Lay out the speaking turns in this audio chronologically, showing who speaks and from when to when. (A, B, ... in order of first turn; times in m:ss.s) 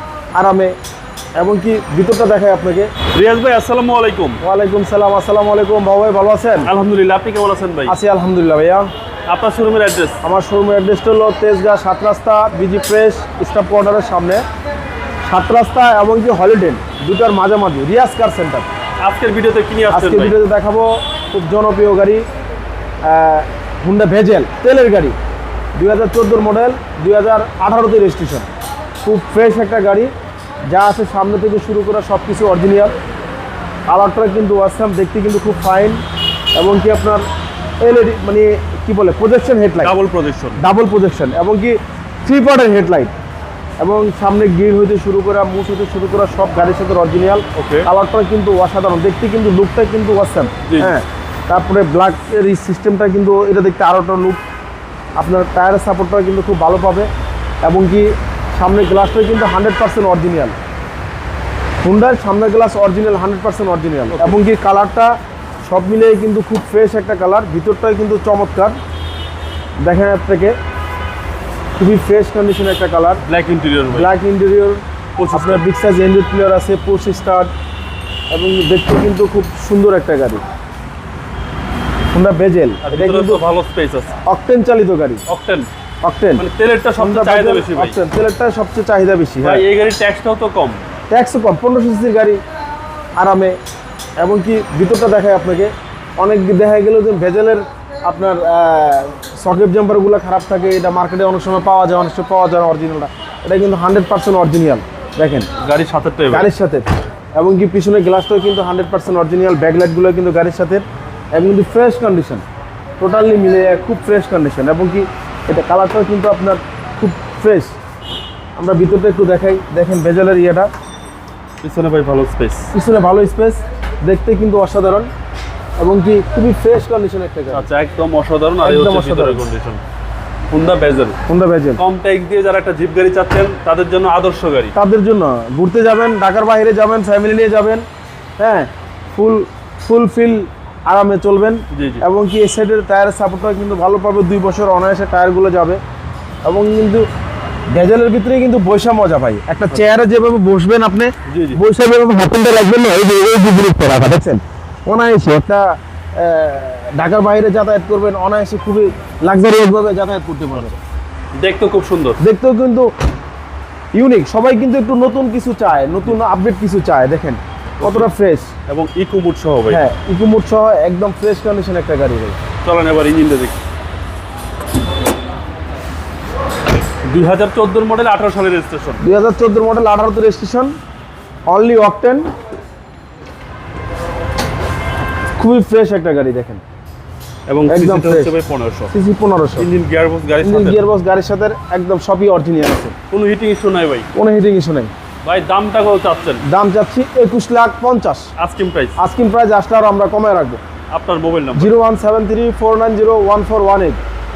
0:00.3-0:00.8 A
0:01.4-0:02.9 A
0:03.1-0:04.4 B
0:04.4-0:06.7 A
0:06.6-0:07.9 B
0:07.9-0:08.9 A
0:09.3-0:10.2 B
0:10.2-0:14.4 A
0:15.2-0:18.7 A
0:19.0-0:20.3 B
0:19.9-0:22.2 A
0:23.0-0:25.2 A
0:25.8-0:28.5 A
0:29.0-0:30.1 A
0:30.7-0:32.9 A
0:33.9-0:36.0 A
0:36.6-0:37.2 A
0:37.8-0:39.9 A
0:39.8-0:40.6 B
0:40.6-0:43.1 A
0:43.8-0:54.4 A
0:47.5-0:47.9 B
0:50.6-0:50.9 B
0:55.2-0:57.1 A
0:57.6-1:00.5 A
1:01.8-1:08.8 A
1:04.1-1:04.4 B
1:09.8-1:10.6 A
1:11.8-1:13.2 A
1:13.2-1:14.1 B
1:13.9-1:17.5 A
1:15.2-1:15.6 B
1:18.3-1:20.4 A
1:22.1-1:23.4 A
1:22.8-1:24.2 B
1:24.2-1:25.2 A
1:25.3-1:25.7 B
1:26.0-1:26.4 A
1:26.4-1:28.0 B
1:27.0-1:29.6 A
1:29.4-1:30.8 B
1:31.1-1:32.4 A
1:33.2-1:33.6 A
1:34.2-1:45.5 A
1:45.6-1:46.5 B
1:46.3-1:52.4 A
1:53.0-1:57.7 A
1:58.6-2:00.7 A
2:01.6-2:02.7 B
2:02.7-2:05.1 A
2:05.8-2:07.7 A
2:07.5-2:09.8 B
2:08.6-2:09.4 A
2:10.5-2:11.2 B
2:11.3-2:11.8 A
2:11.8-2:14.7 B
2:14.7-2:17.8 A
2:18.4-2:25.8 A
2:21.7-2:22.0 B
2:26.4-2:27.1 A
2:27.7-2:40.8 A
2:31.2-2:31.6 B
2:41.4-2:42.2 B
2:42.2-2:42.9 A
2:43.9-2:48.5 A
2:47.8-2:48.1 B
2:48.7-2:49.8 B
2:49.7-2:52.4 A
2:52.6-2:53.6 B
2:57.0-2:59.0 B
2:59.0-3:00.7 A
3:01.5-3:02.3 A
3:05.4-3:06.6 A
3:07.5-3:08.9 B
3:07.7-3:08.3 A
3:08.9-3:09.7 A
3:09.6-3:10.8 B
3:10.4-3:13.0 A
3:13.1-3:14.1 B
3:14.1-3:14.9 A
3:15.2-3:16.4 B
3:16.4-3:18.3 A
3:18.4-3:19.0 B
3:19.0-3:20.6 A
3:20.9-3:21.7 B
3:21.6-3:24.0 A